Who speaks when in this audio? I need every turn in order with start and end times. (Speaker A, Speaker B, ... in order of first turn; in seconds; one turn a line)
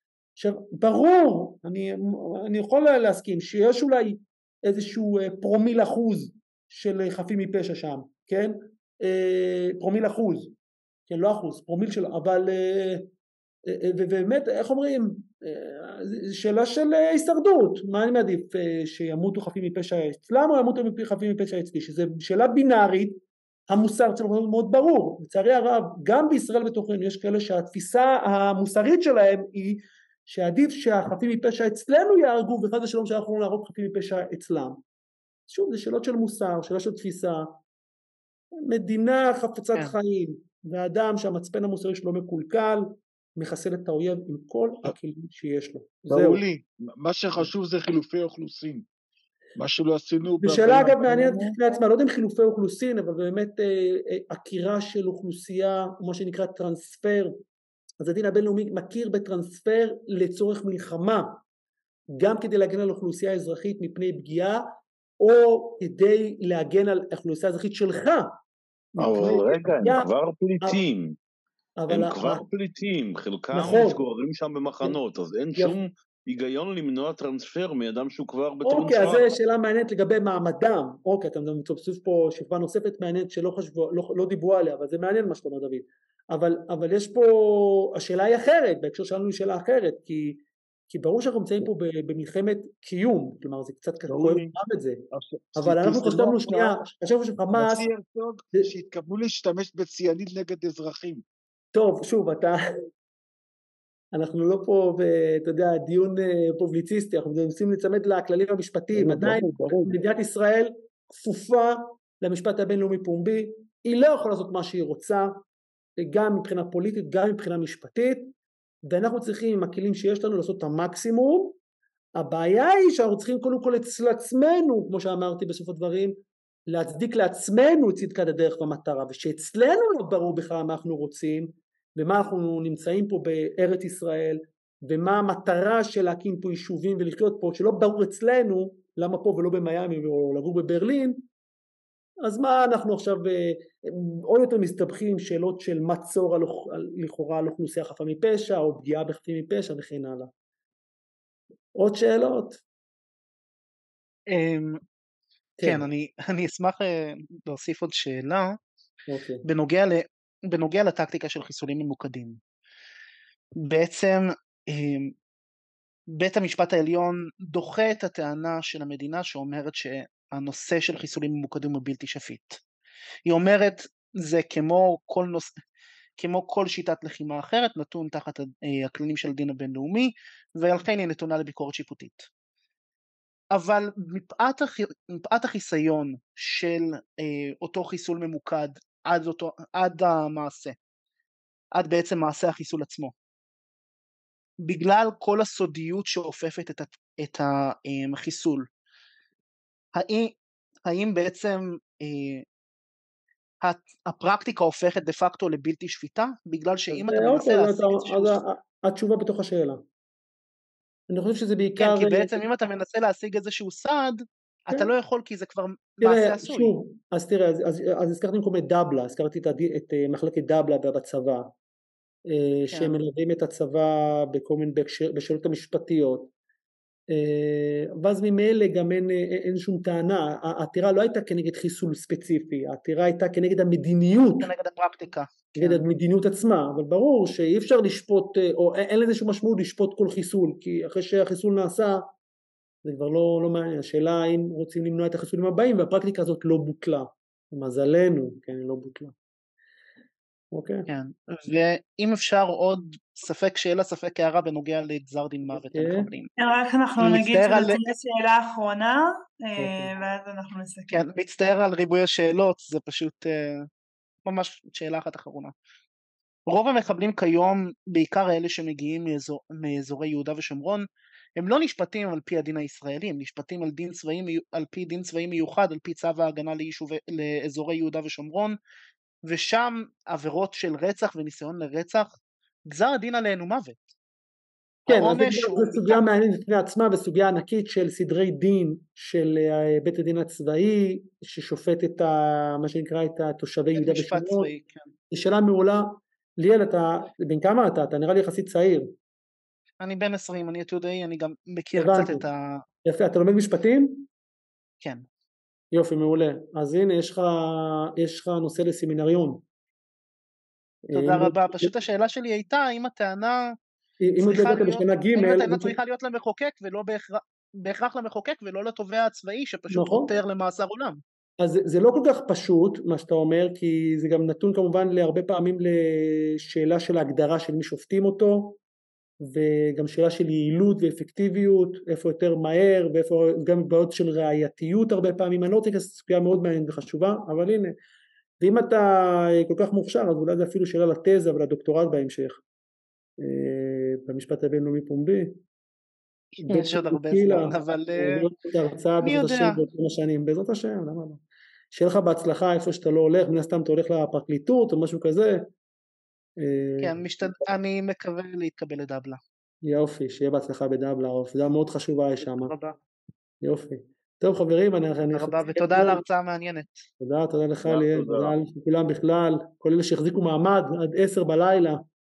Speaker A: 0.4-10.5
Speaker A: 11.1-13.1
Speaker A: 13.7-34.8
Speaker A: 35.5-37.5
Speaker A: 38.6-46.4
Speaker B: 46.1-48.9
Speaker B: 49.5-51.5
Speaker A: 50.4-57.3
Speaker A: 58.0-61.4
Speaker A: 62.1-68.3
Speaker A: 68.9-70.1
Speaker C: 69.0-71.2
Speaker A: 71.8-72.4
Speaker C: 71.9-79.3
Speaker A: 73.5-74.0
Speaker A: 78.6-95.0
Speaker B: 94.1-94.5
Speaker B: 95.1-96.8
Speaker A: 95.5-97.9
Speaker B: 97.5-101.2
Speaker A: 101.7-102.6
Speaker A: 104.1-115.3
Speaker B: 108.9-109.9
Speaker A: 116.0-118.3
Speaker A: 118.8-121.6
Speaker A: 122.2-126.2
Speaker A: 126.7-141.2
Speaker A: 142.2-150.3
Speaker A: 151.7-152.6
Speaker D: 154.3-154.8
Speaker A: 155.6-155.8
Speaker D: 155.6-158.6
Speaker A: 159.1-159.4
Speaker D: 159.4-162.4
Speaker D: 163.6-165.1
Speaker D: 166.1-172.6
Speaker D: 173.3-175.5
Speaker D: 176.2-182.3
Speaker D: 183.5-190.8
Speaker D: 191.7-193.1
Speaker D: 194.6-198.7
Speaker D: 199.9-202.4
Speaker D: 203.6-208.4
Speaker A: 206.9-209.8
Speaker A: 211.1-212.4
Speaker D: 211.8-216.7
Speaker A: 216.0-221.5
Speaker A: 222.3-226.3
Speaker D: 222.7-223.0
Speaker A: 227.1-234.5
Speaker D: 234.4-235.8
Speaker A: 235.6-242.1
Speaker A: 242.8-249.1
Speaker A: 250.5-250.9
Speaker D: 250.9-256.3
Speaker A: 255.5-256.1
Speaker E: 256.4-261.0
Speaker D: 257.0-257.8
Speaker A: 259.6-259.9
Speaker D: 260.9-263.7
Speaker D: 264.2-265.5
Speaker D: 266.5-278.6
Speaker D: 279.2-283.9
Speaker D: 284.9-286.0
Speaker A: 284.9-294.5
Speaker D: 293.7-294.9
Speaker A: 295.1-298.9
Speaker D: 299.8-302.6
Speaker A: 301.8-302.2
Speaker A: 302.8-304.1
Speaker A: 305.7-309.4
Speaker A: 310.9-311.7
Speaker D: 310.9-313.6
Speaker A: 314.0-315.7
Speaker D: 314.2-321.0
Speaker A: 319.7-320.1
Speaker A: 321.4-328.6
Speaker A: 329.2-337.7
Speaker A: 338.4-342.4
Speaker A: 343.2-345.4
Speaker D: 346.4-348.3
Speaker A: 346.4-351.2
Speaker D: 349.0-349.6
Speaker A: 351.7-355.4
Speaker A: 356.4-357.5
Speaker D: 356.8-359.2
Speaker A: 359.6-362.5
Speaker D: 362.2-362.8
Speaker A: 363.4-366.0
Speaker D: 365.1-366.9
Speaker A: 367.0-371.8
Speaker C: 367.6-368.4